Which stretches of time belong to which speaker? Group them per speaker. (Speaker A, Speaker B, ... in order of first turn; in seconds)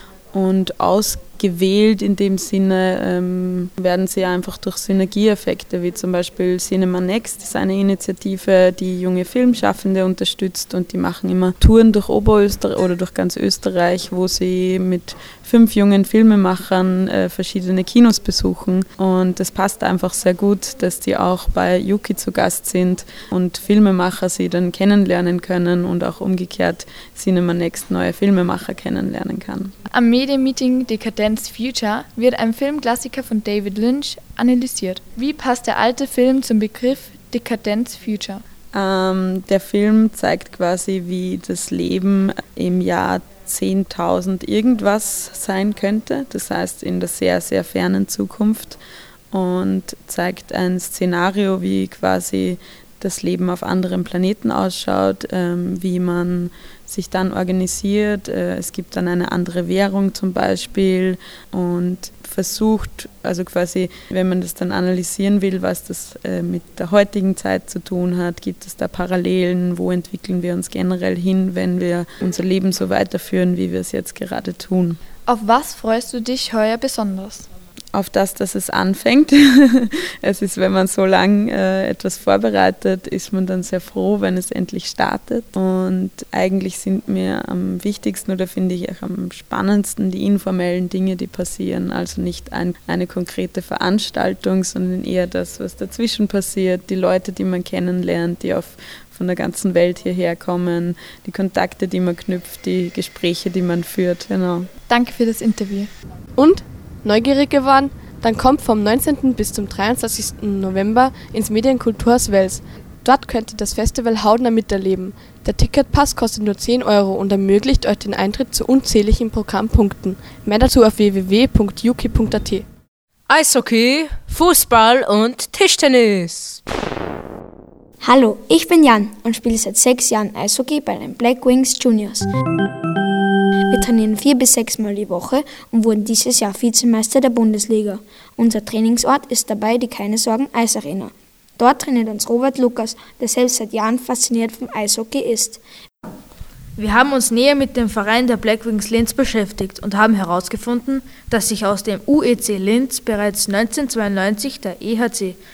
Speaker A: 0.3-29.8, 38.7-48.8, 49.3-75.0, 77.9-104.7
Speaker B: 29.9-38.4, 75.3-77.5, 104.9-105.9
Speaker C: 106.4-122.7
Speaker D: 123.3-126.6
Speaker E: 128.0-132.3, 133.7-145.6
Speaker F: 146.8-155.4